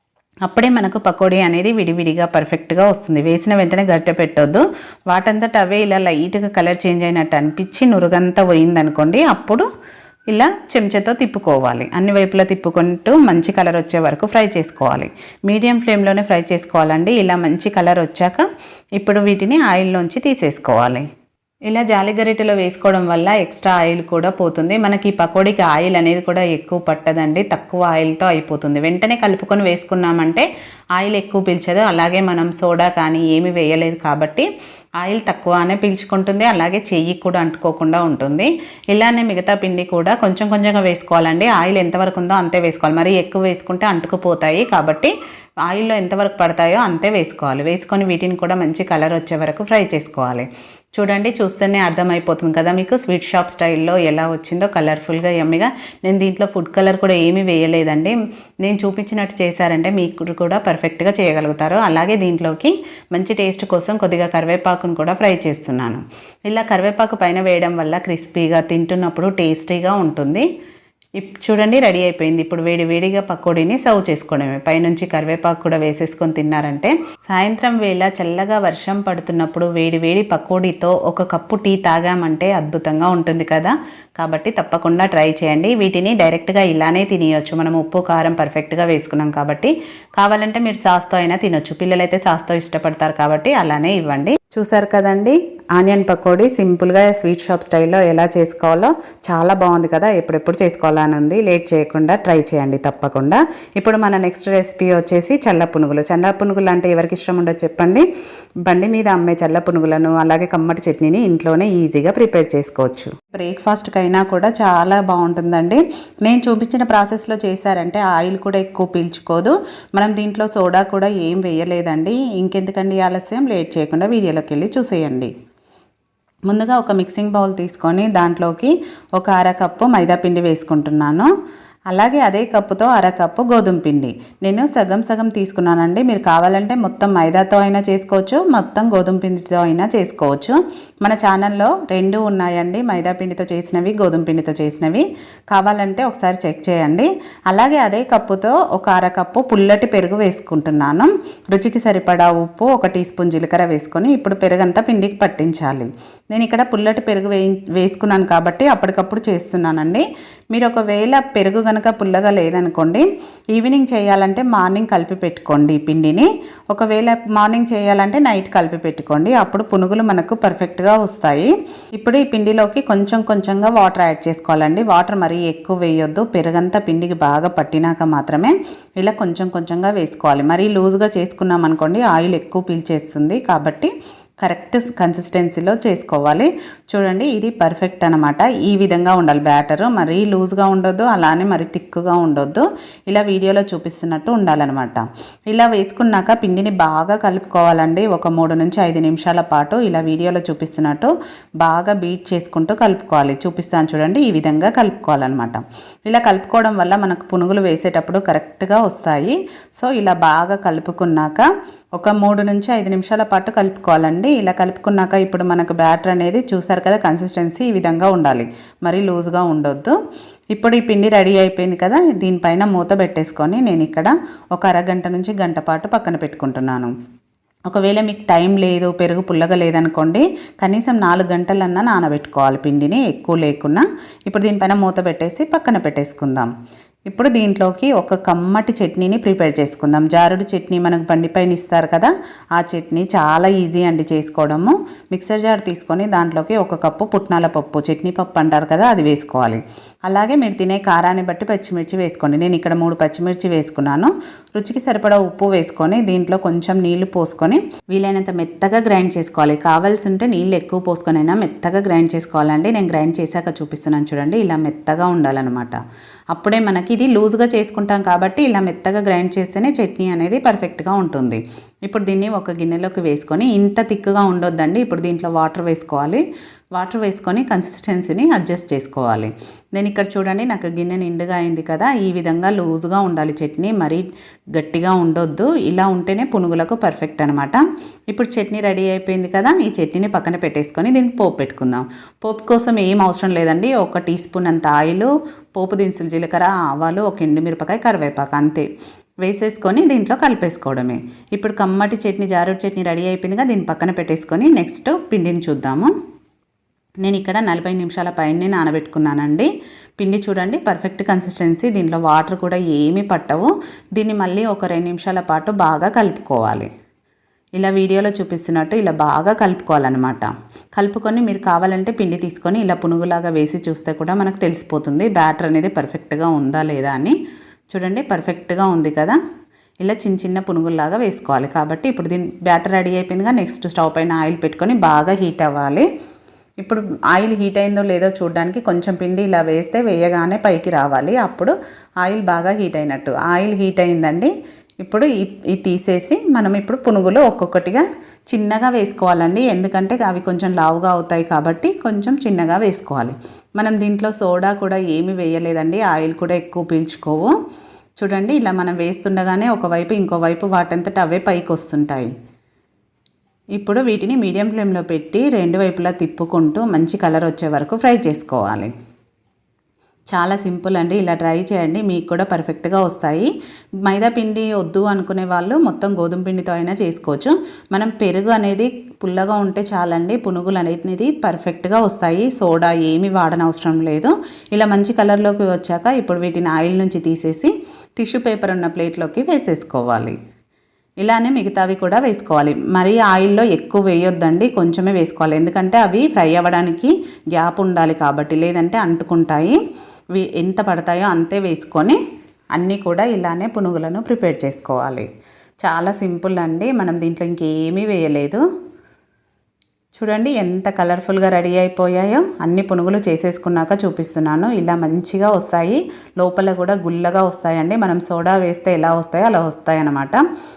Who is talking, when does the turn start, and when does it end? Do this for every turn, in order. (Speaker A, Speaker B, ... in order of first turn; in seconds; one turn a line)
Speaker A: 0.5-9.7
Speaker A: 10.3-21.1
Speaker A: 21.7-34.5
Speaker A: 35.0-45.1
Speaker A: 45.7-70.5
Speaker A: 71.2-108.1
Speaker A: 108.7-125.3
Speaker A: 126.5-131.3
Speaker A: 131.9-183.9
Speaker A: 184.4-219.9
Speaker A: 220.5-226.9
Speaker A: 227.7-236.5
Speaker A: 237.1-265.8
Speaker A: 266.3-276.2
Speaker A: 276.8-298.7
Speaker A: 299.2-305.9
Speaker A: 307.0-316.7
Speaker A: 317.6-327.1
Speaker A: 327.7-329.2
Speaker A: 329.8-335.9
Speaker A: 336.6-344.3
Speaker A: 344.8-357.3
Speaker A: 358.0-362.1
Speaker A: 363.6-368.7
Speaker A: 370.1-373.3
Speaker A: 373.9-390.1
Speaker A: 391.0-399.6
Speaker A: 400.1-402.0
Speaker A: 402.6-405.1
Speaker A: 405.6-408.4
Speaker A: 410.0-420.2